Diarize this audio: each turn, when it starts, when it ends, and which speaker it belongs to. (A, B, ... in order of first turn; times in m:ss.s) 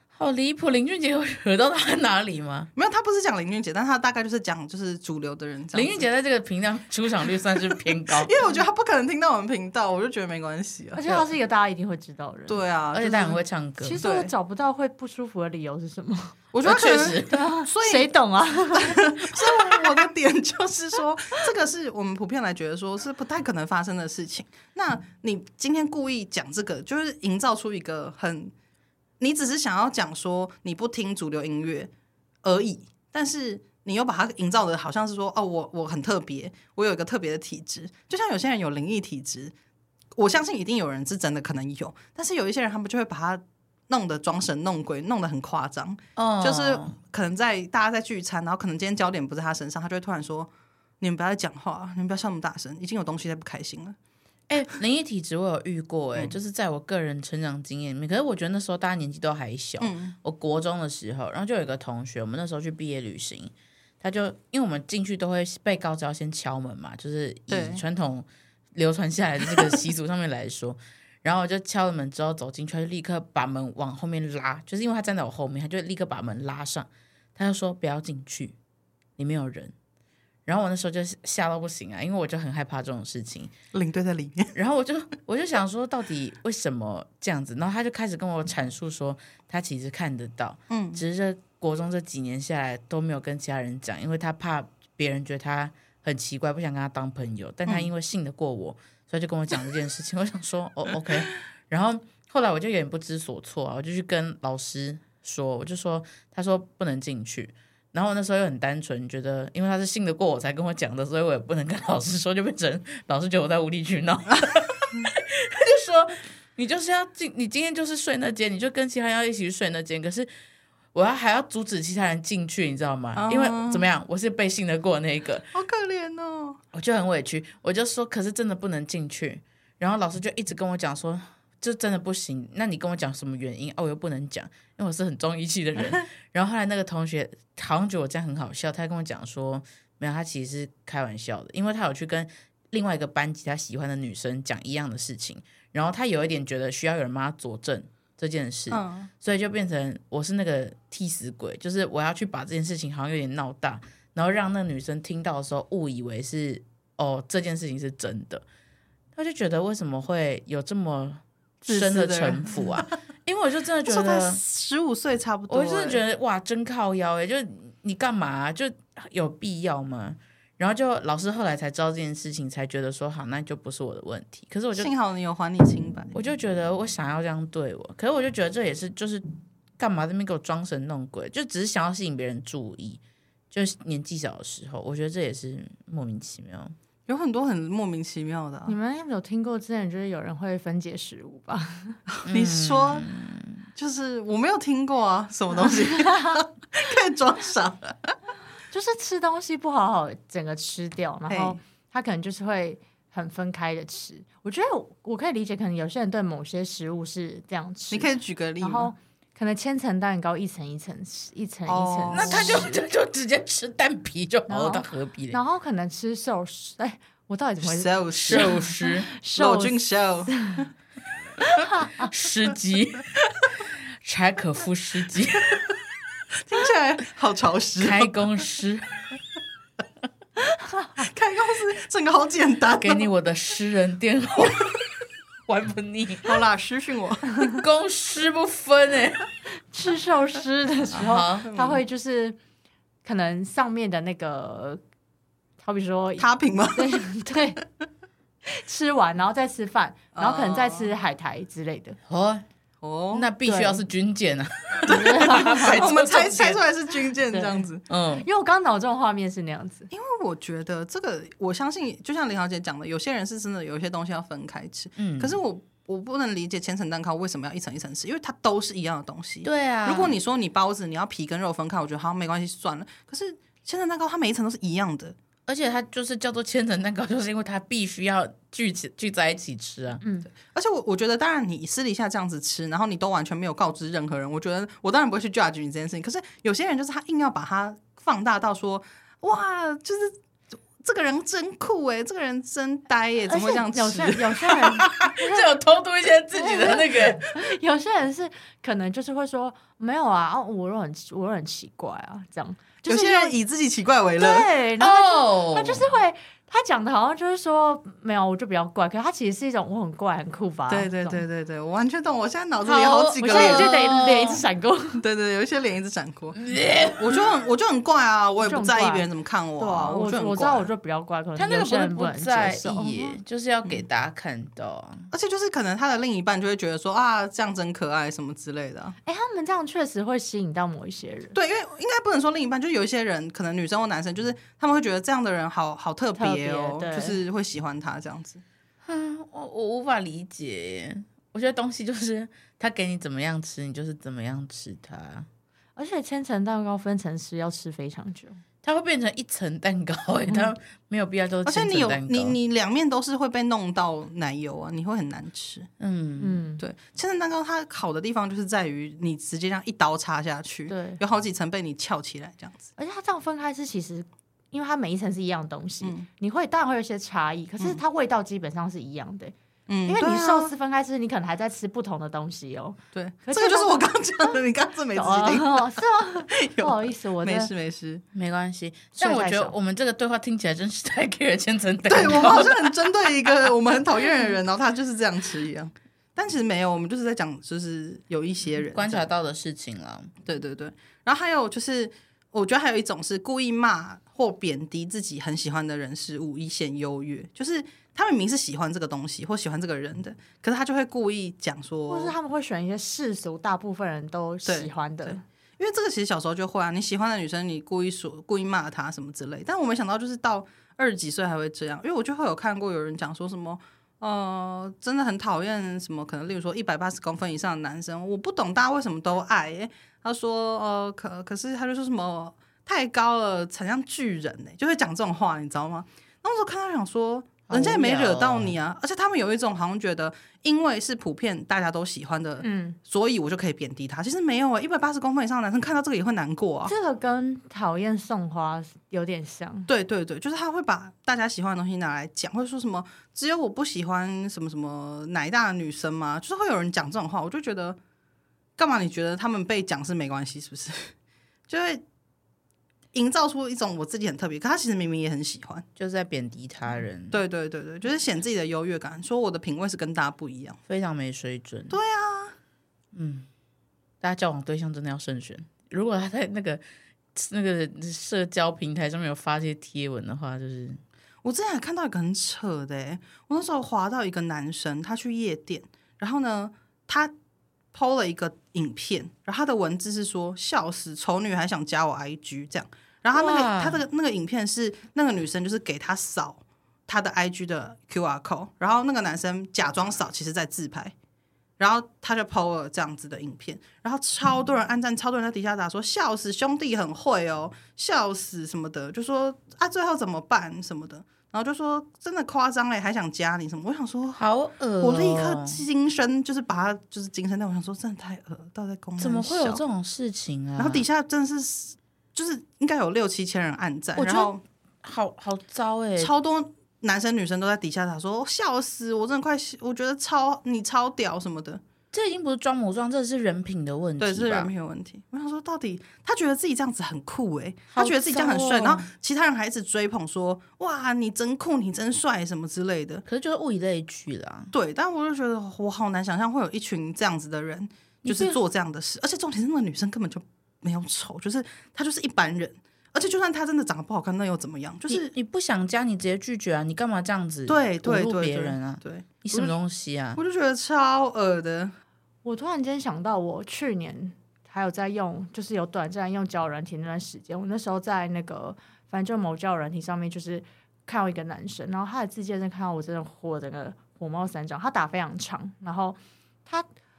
0:00.1-0:02.7 A
0:02.8-0:06.0 B
0:05.7-0:08.3 A
0:07.8-0:11.2 B
0:11.0-0:12.6 C
0:12.5-0:13.4 B
0:12.9-0:14.0 A
0:13.8-0:16.4 C
0:14.0-0:14.3 B
0:16.5-0:18.1 B
0:16.6-0:17.4 A
0:17.2-0:19.9 C
0:18.7-0:28.5 B
0:29.2-0:31.9 B
0:32.4-0:39.5 B
0:40.2-0:50.5 B
0:46.2-0:47.0 A
0:51.0-0:54.0 B
0:54.5-1:18.6 A
0:59.8-1:00.1 B
1:07.5-1:07.8 B
1:19.2-1:19.7 A
1:20.5-1:23.5 A
1:23.7-1:24.5 B
1:24.6-2:00.3 A
1:30.7-1:31.0 B
2:00.9-2:05.5 A
2:03.2-2:03.9 B
2:05.5-2:06.6 B
2:06.7-2:38.4 A
2:15.8-2:16.0 B
2:28.7-2:29.1 B
2:39.1-2:44.4 A
2:41.6-2:43.0 B
2:43.9-2:46.0 B
2:45.5-2:54.9 A
2:54.8-2:56.1 B
2:56.1-2:59.2 A
2:59.8-3:06.7 A
3:07.1-3:08.8 B
3:08.7-3:12.0 C
3:12.1-3:13.1 B
3:12.2-3:13.7 A
3:13.8-3:18.2 B
3:18.7-3:28.1 C
3:21.3-3:21.6 B
3:27.9-3:28.9 B
3:28.6-3:32.8 C
3:31.7-3:32.7 B
3:32.1-3:35.4 A
3:34.5-3:40.7 C
3:37.6-3:38.6 B
3:38.2-3:39.1 A
3:39.4-3:40.7 B
3:41.4-3:42.1 C
3:42.0-3:45.6 A
3:46.4-3:48.1 B
3:47.8-3:48.9 A
3:50.5-3:50.9 C
3:51.0-3:53.1 B
3:52.8-3:54.9 A
3:55.5-3:56.4 A
3:56.2-3:57.6 B
3:57.6-3:59.2 A
3:59.7-4:02.4 C
4:01.0-4:01.5 A
4:01.5-4:01.8 B
4:03.0-4:04.8 C
4:05.6-4:07.6 C
4:06.2-4:07.1 B
4:08.5-4:12.0 C
4:10.1-4:10.9 B
4:12.1-4:12.4 A
4:12.8-4:13.3 B
4:13.1-4:16.6 A
4:13.4-4:13.8 C
4:14.9-4:15.8 C
4:14.9-4:17.8 B
4:17.3-4:17.6 C
4:17.9-4:18.2 A
4:18.2-4:19.9 C
4:19.9-4:35.2 B
4:25.0-4:25.4 A
4:29.4-4:30.1 A
4:35.5-4:40.0 A
4:40.0-4:40.3 C
4:40.3-4:50.1 B
4:50.8-4:54.4 B
4:53.3-4:55.5 C
4:54.8-4:57.2 A
4:56.3-5:03.3 C
5:02.9-5:04.5 B
5:04.2-5:11.2 C
5:04.8-5:05.9 A
5:10.7-5:13.7 B
5:12.6-5:14.4 A
5:13.2-5:15.0 C
5:15.0-5:16.4 B
5:16.4-5:17.2 A
5:17.0-5:20.7 B
5:18.4-5:19.1 C
5:19.6-5:23.2 C
5:21.4-5:25.1 A
5:25.1-5:29.0 B
5:29.0-5:31.4 C
5:31.3-5:38.4 B
5:36.2-5:37.2 C
5:38.8-5:45.3 A
5:45.8-5:48.4 C
5:48.6-5:52.4 A
5:51.5-5:55.7 B
5:55.8-5:56.4 A
5:56.2-5:56.6 C
5:56.6-6:02.7 B
6:00.7-6:01.0 C
6:02.8-6:09.3 C
6:05.8-6:06.1 B
6:09.7-6:10.5 B
6:09.9-6:13.9 C
6:12.9-6:18.0 B
6:15.0-6:17.5 C
6:18.1-6:23.5 A
6:19.0-6:19.5 C
6:21.9-6:29.0 B
6:28.7-6:30.1 A
6:30.2-6:42.2 B
6:41.9-6:45.2 C
6:44.5-7:16.7 B
7:07.5-7:08.6 A
7:12.4-7:12.8 C
7:16.6-7:19.7 C
7:19.7-7:27.8 B
7:28.6-7:30.9 B
7:31.5-7:31.8 B
7:32.9-7:35.6 B
7:35.8-7:37.2 A
7:37.1-7:40.6 B
7:40.7-7:41.8 A
7:41.7-7:42.4 B
7:42.9-7:43.3 A
7:44.0-7:46.6 A
7:47.1-7:50.8 A
7:51.2-7:57.1 B
7:57.7-8:10.9 B
8:03.1-8:03.8 A
8:11.6-8:24.2 B
8:24.2-8:25.6 A
8:24.8-8:29.6 B
8:29.0-8:30.9 A
8:30.6-8:34.4 B
8:34.0-8:34.3 A
8:34.8-8:36.1 A
8:36.0-8:41.6 B
8:41.9-8:44.5 A
8:44.0-8:53.0 B
8:47.7-8:48.9 A
8:53.1-8:54.5 A
8:54.5-9:05.1 B
8:58.0-8:58.4 A
9:04.9-9:10.2 A
9:07.5-9:09.6 B
9:10.2-9:11.7 B
9:12.2-9:26.7 C